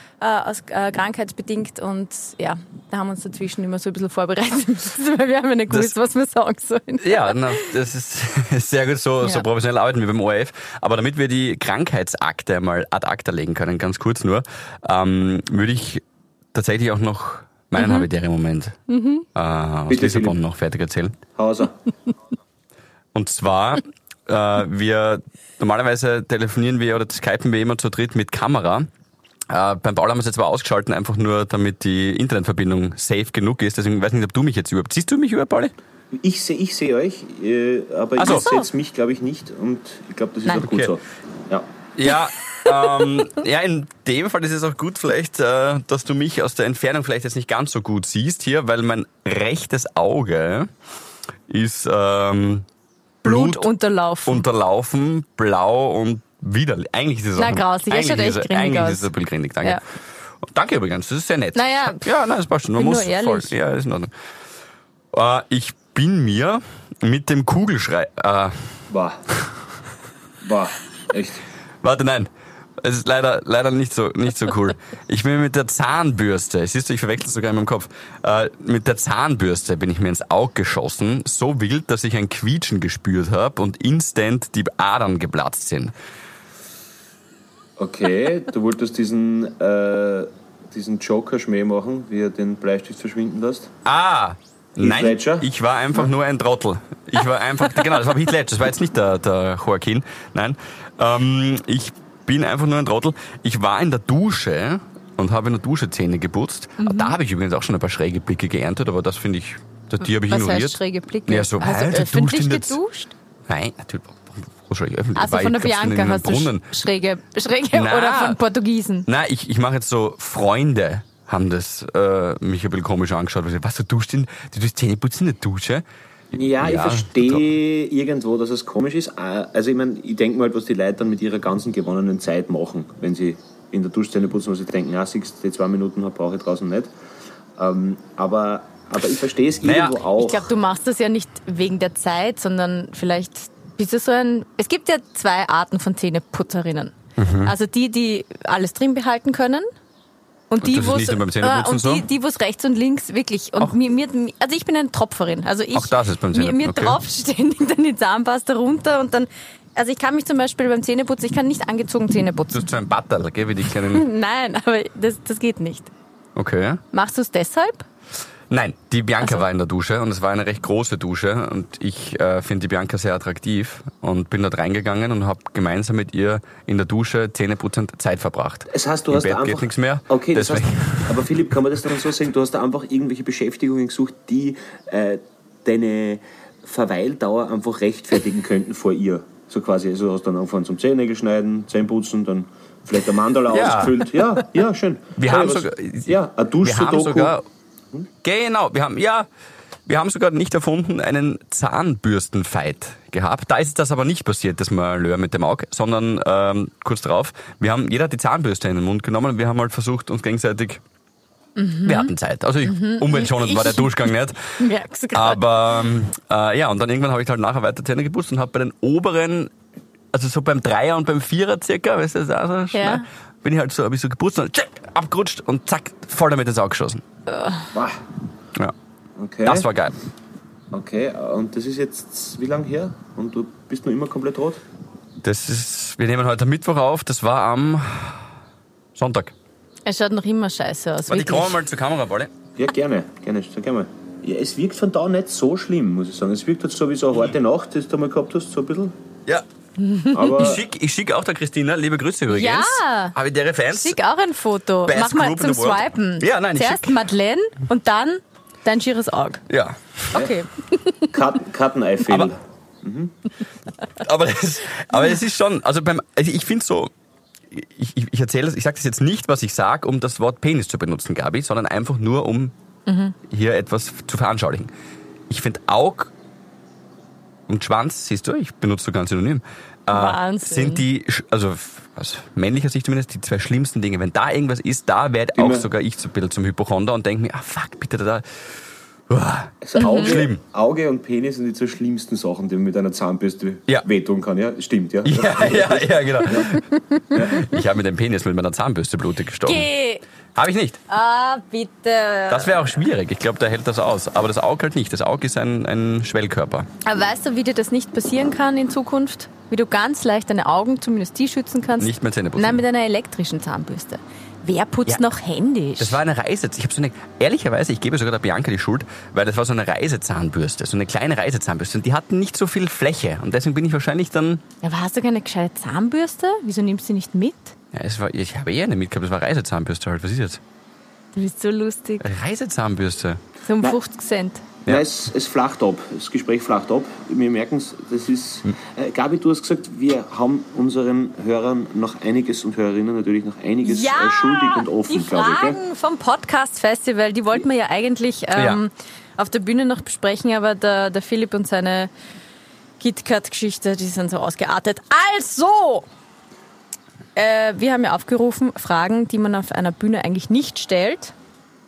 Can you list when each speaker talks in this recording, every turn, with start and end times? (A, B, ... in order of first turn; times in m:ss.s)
0:00.2-0:07.7 A
0:07.0-0:16.0 B
0:16.5-0:18.8 B
0:17.7-0:18.1 A
0:18.9-0:19.2 A
0:19.3-0:21.2 B
0:19.9-0:20.4 C
0:21.4-0:21.7 C
0:23.1-0:28.9 B
0:29.5-0:35.7 B
0:36.1-0:41.7 C
0:38.2-0:38.6 B
0:40.6-0:40.9 B
0:42.0-0:50.7 B
0:51.5-0:52.6 B
0:53.2-0:53.7 B
0:53.2-0:54.4 A
0:54.2-0:59.8 B
0:57.4-0:59.1 A
1:00.4-1:04.1 B
1:01.5-1:02.0 A
1:02.8-1:03.5 A
1:05.1-1:08.8 B
1:08.9-1:09.2 C
1:10.4-1:11.4 C
1:11.8-1:12.3 B
1:12.8-1:25.9 B
1:27.8-1:33.7 C
1:33.8-1:52.8 B
1:34.8-1:36.1 C
1:46.8-1:47.1 A
1:50.0-1:53.1 A
1:53.5-1:56.7 B
1:55.2-1:59.1 A
1:57.7-1:58.4 B
1:59.1-2:05.8 B
2:06.3-2:16.9 C
2:06.6-2:07.4 B
2:17.6-2:20.5 C
2:19.6-2:20.0 B
2:20.1-2:29.7 A
2:27.2-2:27.5 B
2:30.5-2:42.7 A
2:30.6-2:32.0 B
2:35.7-2:37.0 B
2:42.5-2:44.0 B
2:43.9-2:45.9 A
2:46.4-2:46.8 B
2:46.9-2:47.8 A
2:48.5-3:01.4 B
2:58.7-3:17.3 C
3:13.5-3:14.3 B
3:15.2-3:17.4 B
3:18.2-3:19.3 B
3:19.9-3:30.8 B
3:31.6-3:32.1 A
3:31.8-3:34.5 B
3:32.6-3:35.4 A
3:35.1-3:39.5 B
3:40.1-3:47.0 B
3:42.7-3:43.0 A
3:47.3-3:47.7 A
3:47.7-3:48.0 C
3:49.2-3:49.7 C
3:49.4-3:49.9 B
3:50.7-3:54.6 C
3:55.2-3:58.3 B
3:59.0-3:59.3 B
3:59.8-4:01.6 A
4:01.1-4:02.3 B
4:02.6-4:08.9 C
4:09.8-4:10.3 A
4:10.1-4:10.6 C
4:10.4-4:14.0 B
4:12.3-4:13.2 A
4:13.7-4:19.4 A
4:14.8-4:17.0 B
4:19.5-4:20.3 B
4:20.1-4:21.1 A
4:21.1-4:23.1 C
4:24.0-4:26.9 B
4:27.5-4:32.5 B
4:32.9-4:33.1 A
4:33.3-4:34.7 B
4:35.3-4:36.1 B
4:37.5-4:48.5 B
4:39.9-4:40.8 A
4:45.3-4:45.7 C
4:49.1-4:50.4 B
4:49.6-4:56.5 C
4:49.8-4:50.2 A
4:55.0-4:59.7 B
4:57.1-4:57.4 C
4:59.4-5:00.0 A
5:00.4-5:00.8 B
5:00.9-5:02.7 A
5:02.3-5:06.7 B
5:06.8-5:16.0 A
5:11.8-5:12.6 B
5:15.8-5:24.4 B
5:24.6-5:27.5 A
5:27.7-5:30.4 B
5:31.1-5:32.0 A
5:32.0-5:33.2 B
5:33.4-5:34.4 A
5:34.6-5:45.6 C
5:43.6-5:51.9 A
5:48.4-5:48.6 B
5:52.8-5:55.8 A
5:57.2-6:01.1 A